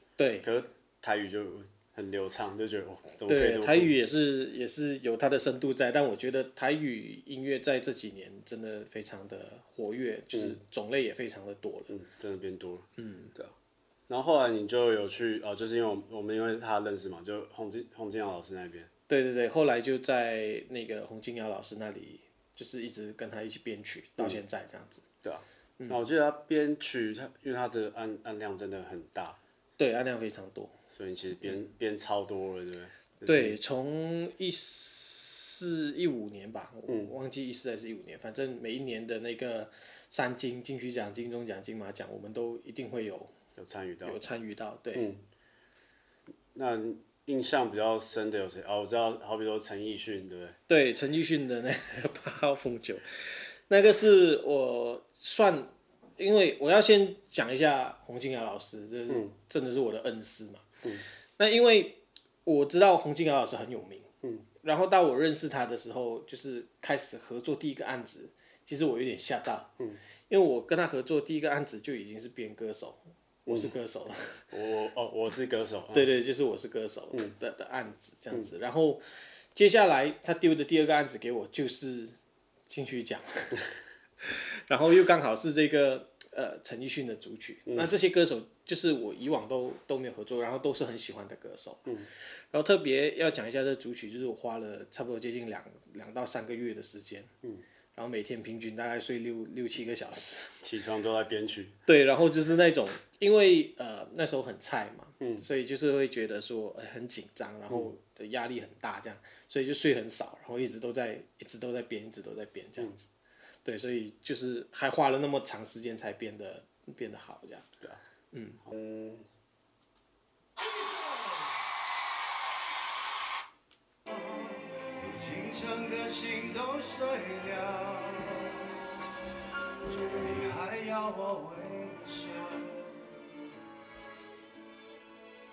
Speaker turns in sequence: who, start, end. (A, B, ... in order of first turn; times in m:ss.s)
0:00.2-0:00.5 A
0:00.4-0:04.0 B
0:03.3-0:11.9 A
0:11.9-0:13.5 B
0:13.0-0:13.3 A
0:14.1-0:18.9 B
0:19.1-0:25.0 A
0:25.2-0:29.4 B
0:29.8-0:30.7 A
0:30.9-0:33.6 B
0:33.3-0:43.3 A
0:43.6-0:44.2 B
0:44.0-0:45.1 A
0:45.0-0:45.2 B
0:46.5-0:50.6 B
0:50.7-1:00.6 A
1:01.4-1:09.7 A
1:10.3-1:14.4 A
1:13.5-1:13.7 B
1:14.5-1:16.1 B
1:15.9-1:19.0 A
1:19.6-1:22.2 A
1:22.7-1:23.6 A
1:24.2-1:31.9 A
1:27.7-1:27.9 B
1:32.5-1:37.3 A
1:38.0-1:40.6 A
1:40.6-1:41.8 B
1:41.9-1:53.1 A
1:45.2-1:45.4 B
1:53.6-1:57.7 A
1:58.3-1:58.6 A
1:58.6-1:59.3 B
2:00.6-2:01.6 C
2:04.1-2:08.8 C
2:09.9-2:13.0 C